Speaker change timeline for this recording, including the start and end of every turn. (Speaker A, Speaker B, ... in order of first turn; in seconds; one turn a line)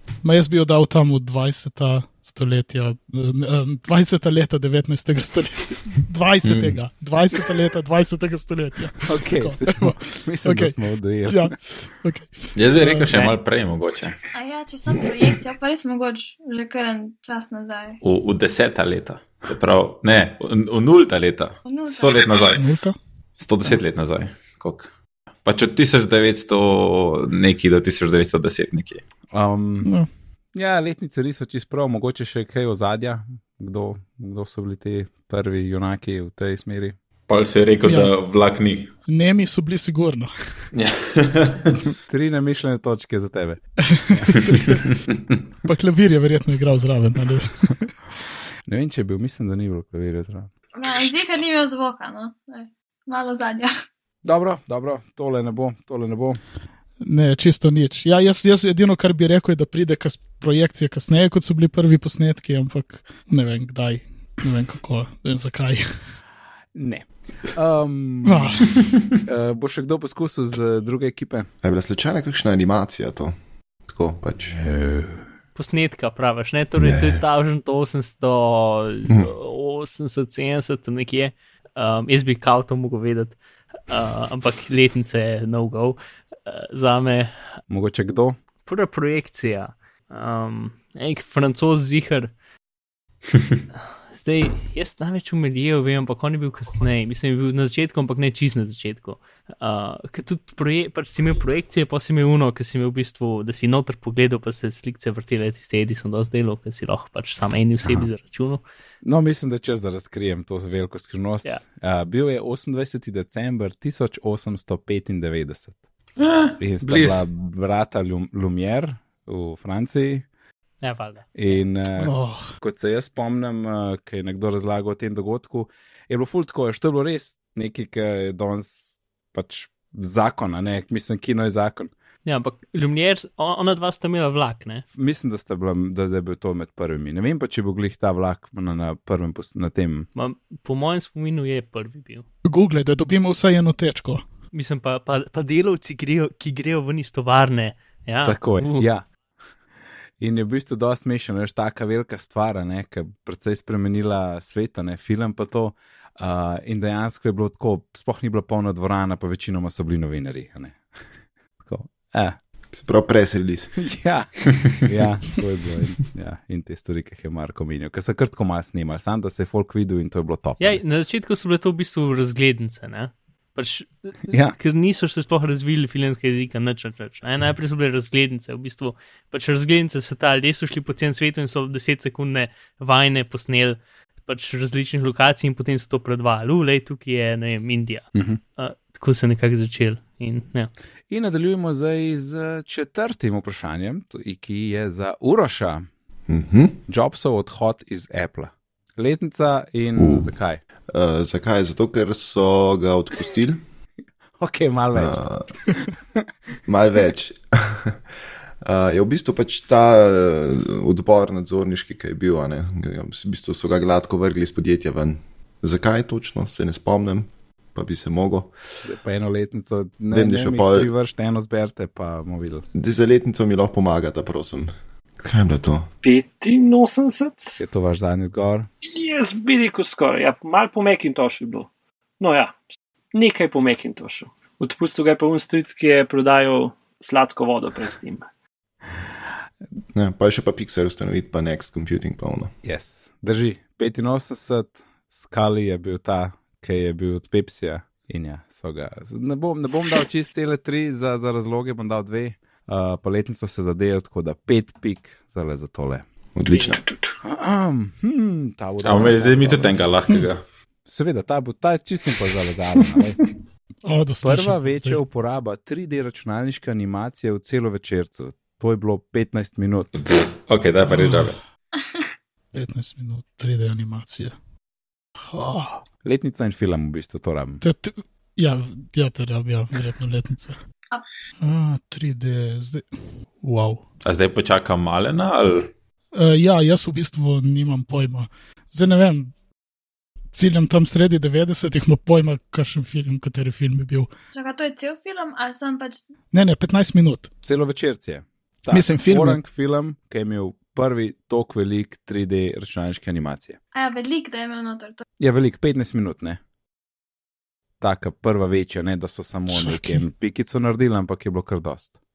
Speaker A: 0.2-10.8
Speaker B: 6.4-6.8
Speaker C: 9.0-11.6
Speaker A: 11.3-13.1
Speaker B: 12.6-14.2
Speaker D: 14.3-18.0
Speaker B: 18.0-22.7
Speaker D: 21.6-22.4
Speaker A: 22.4-23.0
Speaker B: 23.4-24.9
Speaker B: 25.4-29.0
Speaker C: 29.3-29.9
Speaker C: 30.5-37.0
Speaker B: 37.3-38.9
Speaker A: 37.8-38.1
Speaker A: 39.1-40.3
Speaker B: 40.7-41.8
Speaker C: 42.0-44.4
Speaker A: 44.0-44.9
Speaker B: 45.1-45.4
Speaker A: 45.6-47.9
Speaker C: 48.7-50.5
Speaker D: 50.7-53.7
Speaker C: 54.2-56.4
Speaker A: 57.0-65.9
Speaker C: 66.7-68.7
Speaker A: 68.2-68.7
Speaker C: 69.2-71.5
Speaker E: 71.6-74.6
Speaker C: 74.5-75.3
Speaker F: 75.5-87.6
Speaker E: 76.8-77.2
Speaker C: 87.7-88.4
Speaker F: 88.7-92.3
Speaker F: 94.1-108.6
Speaker C: 107.8-108.1
Speaker C: 109.0-115.8
Speaker B: 116.2-117.2
Speaker C: 116.6-120.2
Speaker F: 120.8-121.3
Speaker C: 121.3-131.9
Speaker A: 122.0-122.5
Speaker F: 132.2-134.8
Speaker C: 134.9-140.1
Speaker F: 140.1-142.2
Speaker A: 142.4-144.2
Speaker F: 144.5-148.9
Speaker C: 148.2-149.0
Speaker C: 150.2-160.8
Speaker C: 161.6-162.4
Speaker E: 162.7-163.7
Speaker C: 163.8-170.8
Speaker F: 170.6-190.7
Speaker C: 174.3-174.6
Speaker C: 188.1-188.4
Speaker C: 191.1-195.9
Speaker E: 196.3-196.8
Speaker C: 196.9-200.6
Speaker E: 199.9-200.3
Speaker E: 200.9-203.6
Speaker C: 204.4-205.2
Speaker E: 204.9-205.5
Speaker E: 206.7-208.0
Speaker E: 208.6-218.5
Speaker C: 218.8-222.6
Speaker E: 220.1-220.9
Speaker E: 222.7-225.9
Speaker G: 226.0-227.6
Speaker C: 227.6-228.7
Speaker G: 228.9-231.7
Speaker G: 232.2-232.6
Speaker G: 233.1-238.2
Speaker E: 239.9-242.5
Speaker C: 242.6-256.1
Speaker E: 256.3-256.8
Speaker G: 256.5-257.1
Speaker C: 257.2-259.8
Speaker B: 258.8-260.4
Speaker C: 260.9-263.2
Speaker A: 263.8-265.0
Speaker C: 264.2-270.0
Speaker B: 270.0-271.4
Speaker A: 270.9-271.3
Speaker A: 272.5-274.3
Speaker A: 275.3-275.8
Speaker C: 276.0-277.6
Speaker A: 277.6-280.6
Speaker A: 281.4-282.9
Speaker A: 283.4-283.8
Speaker B: 284.0-285.7
Speaker A: 286.1-289.3
Speaker A: 290.3-294.1
Speaker D: 294.3-296.0
Speaker A: 296.3-297.3
Speaker C: 297.4-303.6
Speaker A: 298.7-299.4
Speaker D: 303.7-305.0
Speaker C: 305.2-306.4
Speaker C: 307.8-311.9
Speaker A: 309.5-310.0